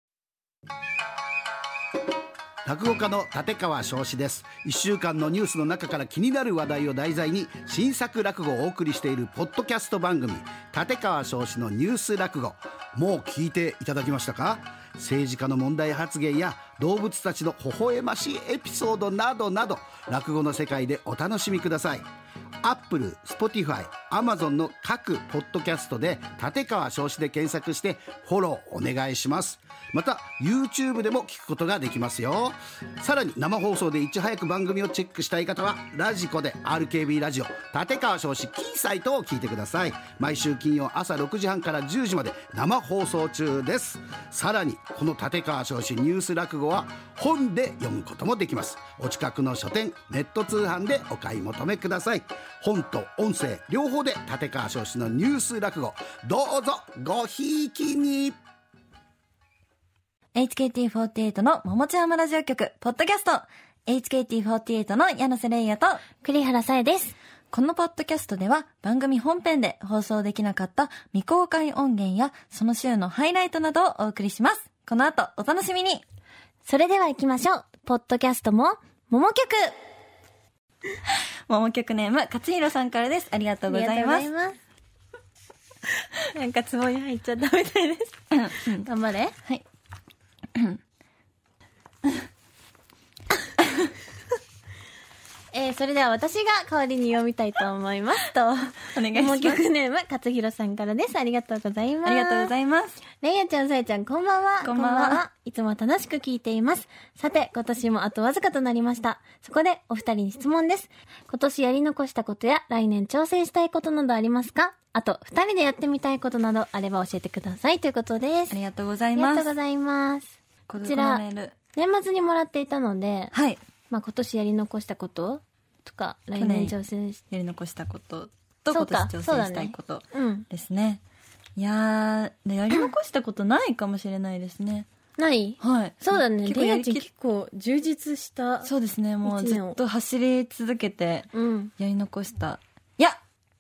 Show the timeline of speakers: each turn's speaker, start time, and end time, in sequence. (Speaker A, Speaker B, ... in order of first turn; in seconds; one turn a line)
Speaker A: 2.6-22.1
Speaker A: 22.6-58.4
Speaker B: 60.4-66.0
Speaker C: 66.2-67.2
Speaker B: 67.5-76.0
Speaker C: 76.7-79.8
Speaker B: 81.5-84.3
Speaker C: 83.7-84.6
Speaker C: 86.3-89.3
Speaker B: 88.3-88.9
Speaker C: 95.5-102.5
Speaker B: 98.9-99.6
Speaker B: 102.0-103.0
Speaker C: 103.2-118.6
Speaker B: 104.6-105.2
Speaker B: 118.5-119.5
Speaker C: 119.2-123.3
Speaker B: 120.7-121.5
Speaker B: 123.3-123.6
Speaker C: 123.9-127.2
Speaker B: 126.4-126.7
Speaker B: 127.3-131.0
Speaker C: 128.7-130.5
Speaker B: 131.6-134.9
Speaker C: 135.2-138.7
Speaker B: 135.6-137.1
Speaker B: 138.6-141.3
Speaker C: 139.2-139.8
Speaker C: 141.3-141.7
Speaker B: 141.8-143.2